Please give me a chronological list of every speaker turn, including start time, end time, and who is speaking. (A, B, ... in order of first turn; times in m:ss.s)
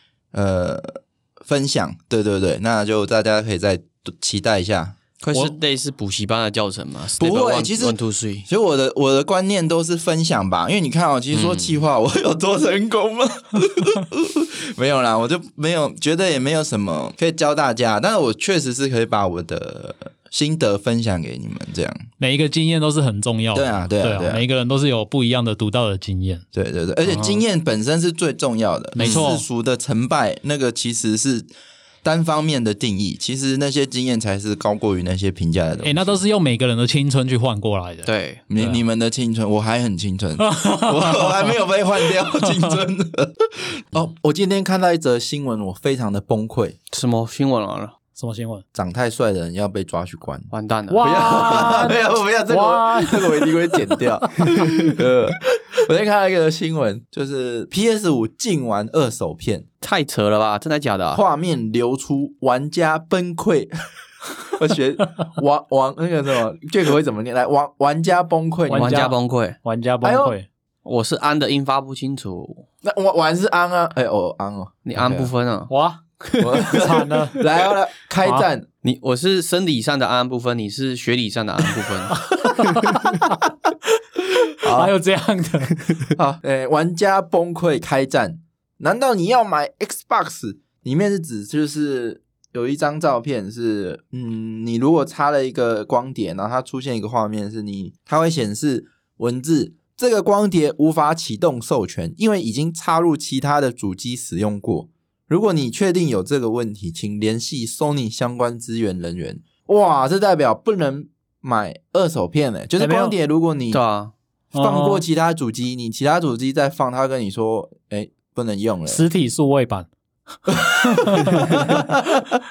0:00.3-0:05.0 A
0:05.2-0:08.5 B
0:07.2-0:22.0 A
0:11.3-0:11.8 B
0:22.2-0:26.4 C
0:23.5-0:24.4 A
0:26.5-0:31.5 A
0:27.0-0:27.4 C
0:29.0-0:29.4 C
0:29.0-0:29.3 B
0:32.0-0:36.2 A
0:35.8-0:38.8 C
0:38.0-0:38.4 B
0:38.5-0:46.8 A
0:40.4-0:41.5 C
0:46.9-0:47.9 B
0:48.1-0:48.6 C
0:48.7-0:59.6 A
0:50.5-0:51.9 B
0:50.9-0:54.5 C
0:59.8-1:01.2 B
1:01.1-1:03.7 A
1:04.4-1:09.0 A
1:08.7-1:10.5 C
1:08.7-1:09.6 B
1:10.0-1:10.4 A
1:10.8-1:12.7 B
1:12.8-1:15.3 A
1:14.8-1:15.7 B
1:15.7-1:17.4 C
1:16.4-1:18.7 A
1:18.8-1:22.2 B
1:22.2-1:23.3 C
1:24.6-1:24.9 B
1:24.6-1:25.9 C
1:25.7-1:26.1 B
1:26.2-1:53.8 A
1:52.8-1:53.2 C
1:53.7-1:54.1 B
1:54.5-1:55.0 C
1:54.6-1:59.0 A
1:58.9-1:59.9 C
2:00.9-2:01.9 C
2:01.3-2:01.8 A